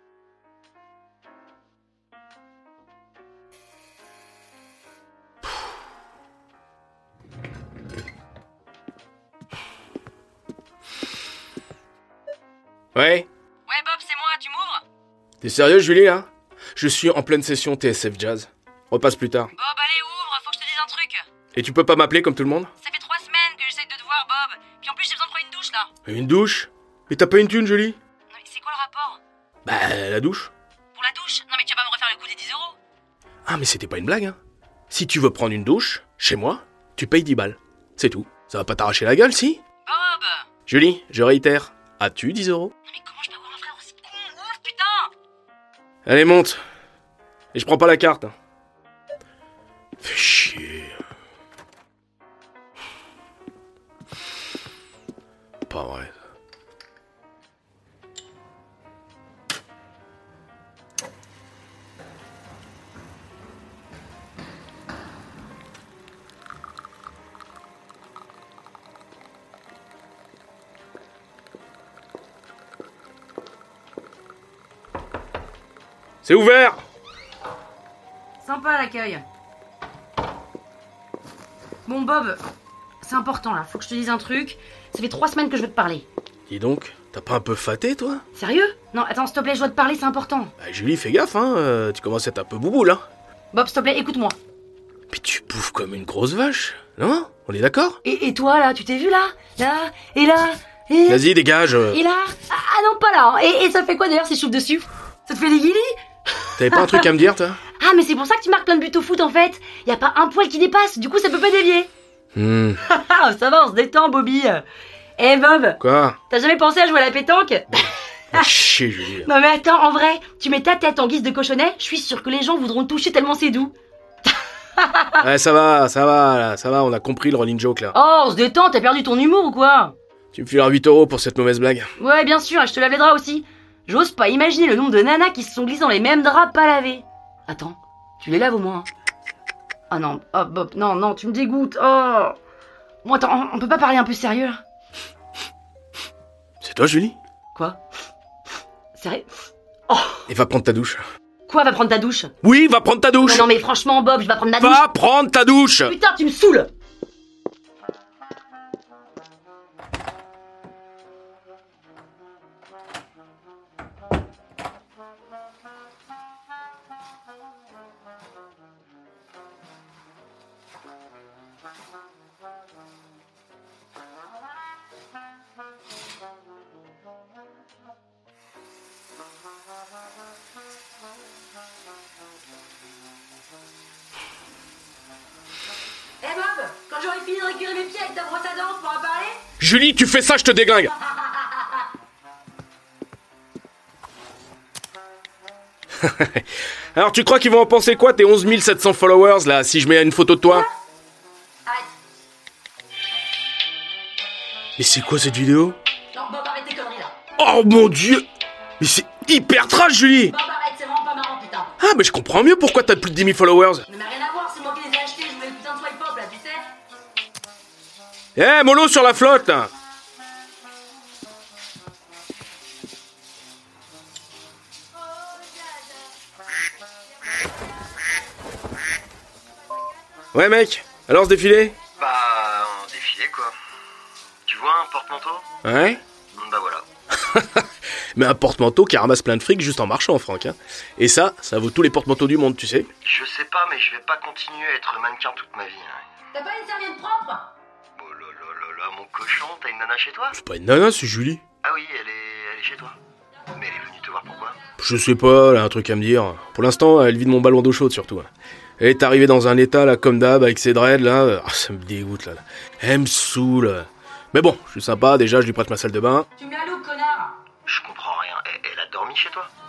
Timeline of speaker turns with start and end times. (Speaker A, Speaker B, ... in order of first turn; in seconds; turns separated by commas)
Speaker A: 12.9-13.3, Speaker B: 13.7-14.8, Speaker A: 15.4-19.5, Speaker B: 19.6-21.2, Speaker A: 21.5-22.7, Speaker B: 22.8-25.9, Speaker A: 26.1-28.0, Speaker B: 28.3-29.2, Speaker A: 29.6-30.5, Speaker B: 30.9-32.8, Speaker A: 33.5-34.4, Speaker A: 34.9-39.6, Speaker B: 39.9-40.5, Speaker A: 40.7-42.7, Speaker B: 42.9-45.1, Speaker A: 46.1-46.6, Speaker A: 47.5-48.3, Speaker A: 50.0-51.0, Speaker A: 55.7-56.1, Speaker A: 76.2-76.8, Speaker B: 78.4-79.3, Speaker B: 81.9-82.4, Speaker B: 83.0-86.1, Speaker A: 86.5-88.2, Speaker B: 88.3-90.5, Speaker A: 90.6-93.0, Speaker B: 93.5-94.4, Speaker A: 95.1-98.0, Speaker B: 98.0-101.2, Speaker A: 101.1-102.0, Speaker B: 101.9-106.0, Speaker A: 106.6-107.6, Speaker B: 106.7-107.1, Speaker B: 107.8-111.9, Speaker A: 112.3-112.8, Speaker B: 112.9-114.6, Speaker B: 115.2-117.7, Speaker A: 115.8-116.2, Speaker A: 118.3-119.3, Speaker B: 119.2-123.7, Speaker B: 124.8-125.2, Speaker A: 125.2-128.0, Speaker B: 127.9-129.9, Speaker A: 130.3-131.9, Speaker B: 132.0-138.9, Speaker B: 139.9-142.4, Speaker B: 143.0-144.6, Speaker A: 146.6-147.2, Speaker B: 147.5-147.8, Speaker B: 148.9-149.3, Speaker B: 149.9-150.3, Speaker A: 150.3-151.0, Speaker B: 151.5-152.3, Speaker A: 152.4-153.5, Speaker B: 153.2-154.8, Speaker A: 154.6-155.9, Speaker B: 155.8-156.7, Speaker B: 186.2-189.4, Speaker A: 189.6-190.9, Speaker B: 191.1-191.8, Speaker A: 196.0-200.7, Speaker A: 204.8-205.8, Speaker B: 206.1-207.2, Speaker A: 207.4-208.3, Speaker A: 208.8-210.3, Speaker B: 210.3-211.7, Speaker A: 211.8-213.8, Speaker B: 213.9-216.7, Speaker A: 218.3-219.7, Speaker A: 230.3-231.8, Speaker C: 232.0-233.5, Speaker C: 234.5-235.5, Speaker A: 235.6-236.0, Speaker C: 236.3-236.8, Speaker A: 237.3-237.6, Speaker A: 238.2-242.9, Speaker C: 243.0-246.0, Speaker B: 246.3-247.5, Speaker C: 248.0-250.4, Speaker A: 250.3-251.4, Speaker C: 251.6-253.0, Speaker C: 253.5-254.6, Speaker A: 254.8-266.3, Speaker B: 266.4-267.3, Speaker C: 267.7-269.5